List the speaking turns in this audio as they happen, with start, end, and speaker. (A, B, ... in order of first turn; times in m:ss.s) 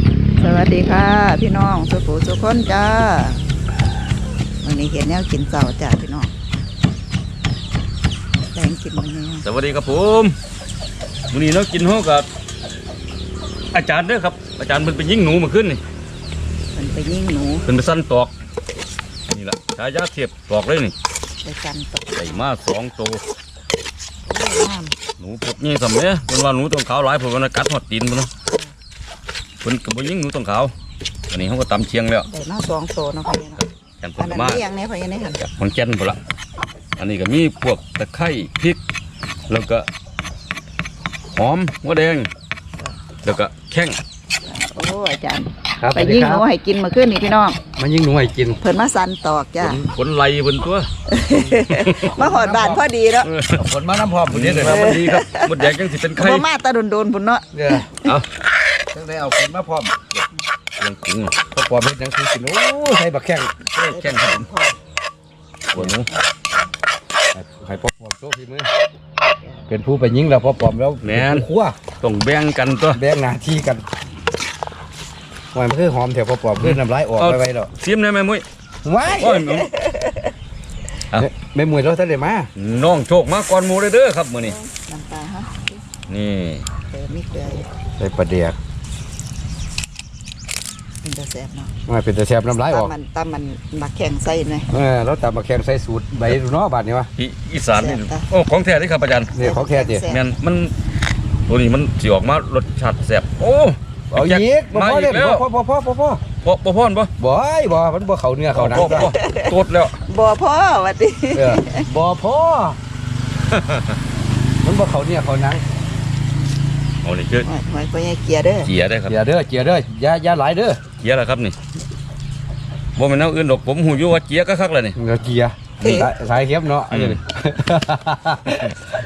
0:00.4-0:03.4 A
0:04.6-0:06.3 A
0:08.5-0:09.4 A
0:09.4-0:10.4 B
0:11.3-0:12.3 B
0:13.7-0:15.8 B
0:16.7-0:17.6 A
0:17.6-0:18.3 B
0:19.3-0:20.9 B
0:21.4-0:22.4 A
0:22.1-0:23.2 B
0:24.2-0:24.9 A
0:25.2-0:28.3 B
0:29.6-0:30.7 B
0:31.3-0:32.3 B
0:32.3-0:33.6 A
0:33.6-0:34.6 B
0:34.2-0:35.4 A
0:35.4-0:36.2 B
0:37.0-0:38.8 B
0:39.5-0:39.9 B
0:41.3-0:42.3 B
0:43.2-0:44.0 B
0:44.5-0:47.6 A
0:45.8-0:46.4 C
0:47.8-0:48.6 C
0:48.6-0:49.8 A
0:49.7-0:50.9 B
0:51.1-0:53.3 A
0:51.4-0:52.8 C
0:51.8-0:52.1 B
0:53.2-0:53.5 B
0:53.5-0:54.9 C
0:54.3-0:56.4 B
0:54.6-0:58.0 A
0:57.5-0:57.9 C
0:58.9-0:59.9 C
1:00.8-1:01.3 B
1:01.5-1:03.5 C
1:03.7-1:04.5 B
1:03.9-1:04.8 A
1:05.7-1:06.1 B
1:07.3-1:08.7 C
1:09.7-1:11.8 C
1:11.0-1:11.5 B
1:12.0-1:13.0 B
1:12.9-1:13.8 C
1:15.5-1:17.7 C
1:16.6-1:18.4 B
1:18.8-1:19.4 C
1:19.2-1:19.7 B
1:19.5-1:20.3 A
1:21.2-1:22.5 C
1:22.6-1:24.6 B
1:24.4-1:25.8 A
1:26.1-1:26.6 B
1:26.9-1:27.7 A
1:28.0-1:28.6 C
1:31.0-1:31.7 A
1:31.9-1:32.9 C
1:32.6-1:34.7 A
1:34.7-1:37.1 C
1:37.2-1:39.3 B
1:37.7-1:38.2 A
1:39.3-1:40.0 C
1:39.4-1:40.2 A
1:40.1-1:40.7 B
1:41.5-1:45.4 B
1:44.1-1:46.2 C
1:46.4-1:47.1 B
1:47.2-1:49.1 C
1:48.5-1:50.0 B
1:48.8-1:49.5 A
1:50.1-1:51.9 A
1:51.3-1:52.8 C
1:53.5-1:54.0 B
1:54.6-1:55.6 C
1:57.0-1:57.5 B
1:57.4-1:58.7 A
1:58.6-1:59.2 B
1:59.1-2:00.8 C
2:01.0-2:01.6 B
2:03.0-2:05.0 B
2:04.9-2:08.8 C
2:05.8-2:06.1 A
2:06.9-2:07.2 B